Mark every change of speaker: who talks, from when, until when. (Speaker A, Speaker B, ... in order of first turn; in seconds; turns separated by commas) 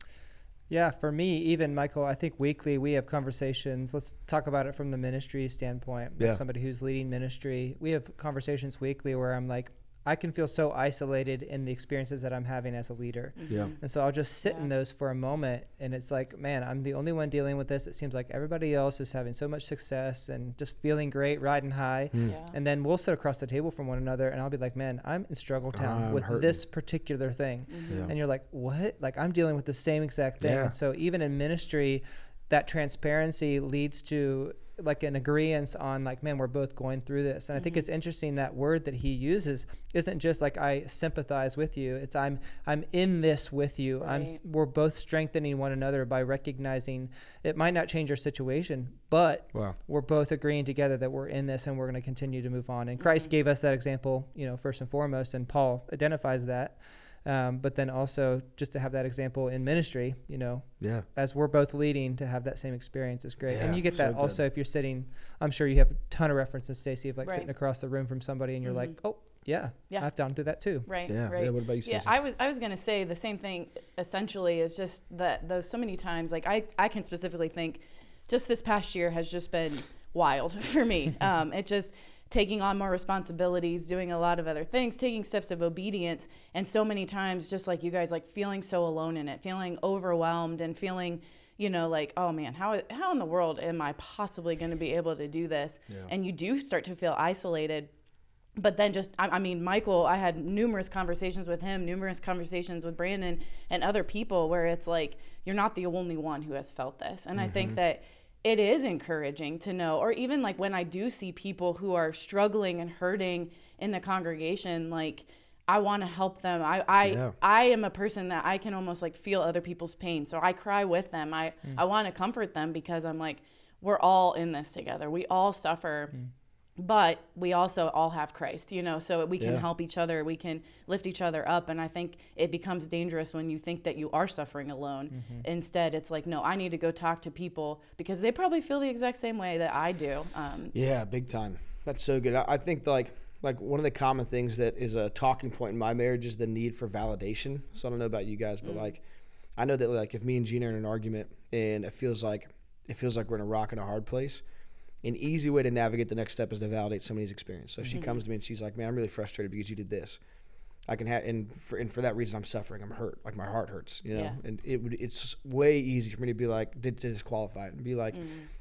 Speaker A: 0.7-70.9, Speaker B: 13.4-13.8, Speaker C: 22.1-22.4, Speaker B: 22.3-22.6, Speaker C: 25.7-26.6, Speaker B: 27.7-28.1, Speaker C: 27.9-28.1, Speaker C: 30.4-30.7, Speaker B: 37.6-37.9, Speaker B: 44.0-44.4, Speaker B: 53.0-53.3, Speaker C: 60.8-61.0, Speaker C: 63.5-64.4, Speaker B: 67.2-67.5, Speaker B: 68.6-69.0, Speaker B: 70.7-97.9, Speaker C: 71.1-72.1, Speaker B: 98.6-126.1, Speaker C: 107.4-107.8, Speaker C: 117.0-117.3, Speaker B: 126.8-140.8, Speaker C: 129.4-129.7, Speaker A: 135.1-135.4, Speaker C: 140.7-149.0, Speaker C: 149.6-154.4, Speaker C: 155.0-160.2, Speaker B: 157.9-158.2, Speaker C: 160.9-168.3, Speaker B: 168.1-168.5